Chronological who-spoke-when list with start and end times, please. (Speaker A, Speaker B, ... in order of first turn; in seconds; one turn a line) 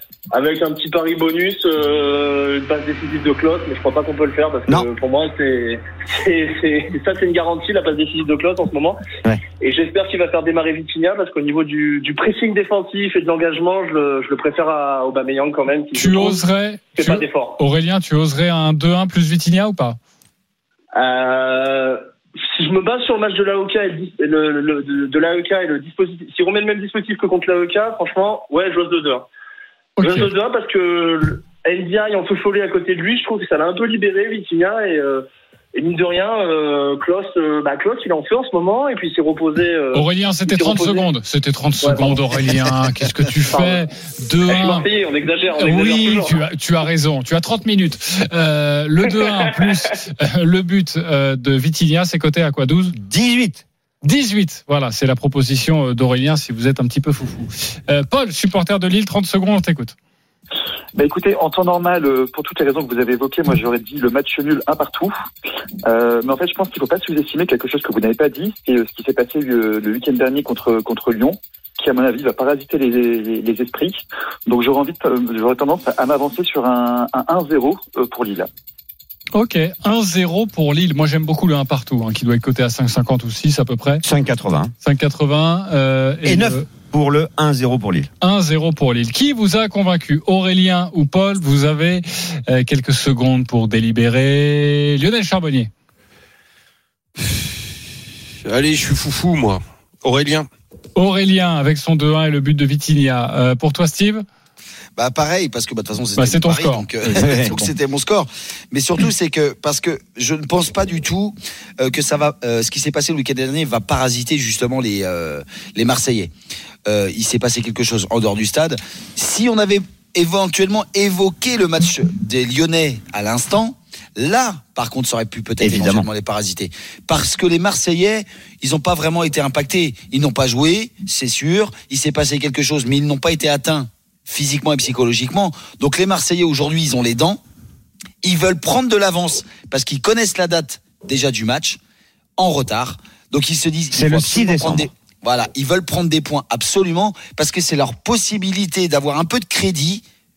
Speaker A: 0.3-9.0
Speaker A: 9.6-16.4
Speaker B: 15.9-20.0
Speaker A: 17.0-17.6
Speaker A: 20.9-29.3
Speaker B: 30.0-30.3
Speaker A: 30.0-41.1
Speaker B: 39.9-44.9
Speaker A: 41.8-42.2
Speaker A: 43.5-43.8
Speaker A: 44.5-46.5
Speaker B: 45.6-53.0
Speaker C: 53.0-53.6
Speaker B: 54.0-60.0
Speaker D: 61.0-65.2
Speaker D: 65.9-78.5
Speaker B: 79.3-84.0
Speaker C: 84.0-84.7
Speaker B: 84.8-86.7
Speaker C: 86.2-88.1
Speaker B: 88.2-95.7
Speaker E: 97.2-97.7
Speaker E: 98.4-100.5
Speaker B: 101.0-104.2
Speaker F: 105.0-116.3
Speaker B: 106.2-107.7
Speaker C: 107.2-107.5
Speaker F: 116.9-137.4
Speaker C: 125.6-126.1
Speaker F: 138.2-141.8
Speaker F: 142.4-150.0
Speaker C: 143.9-144.9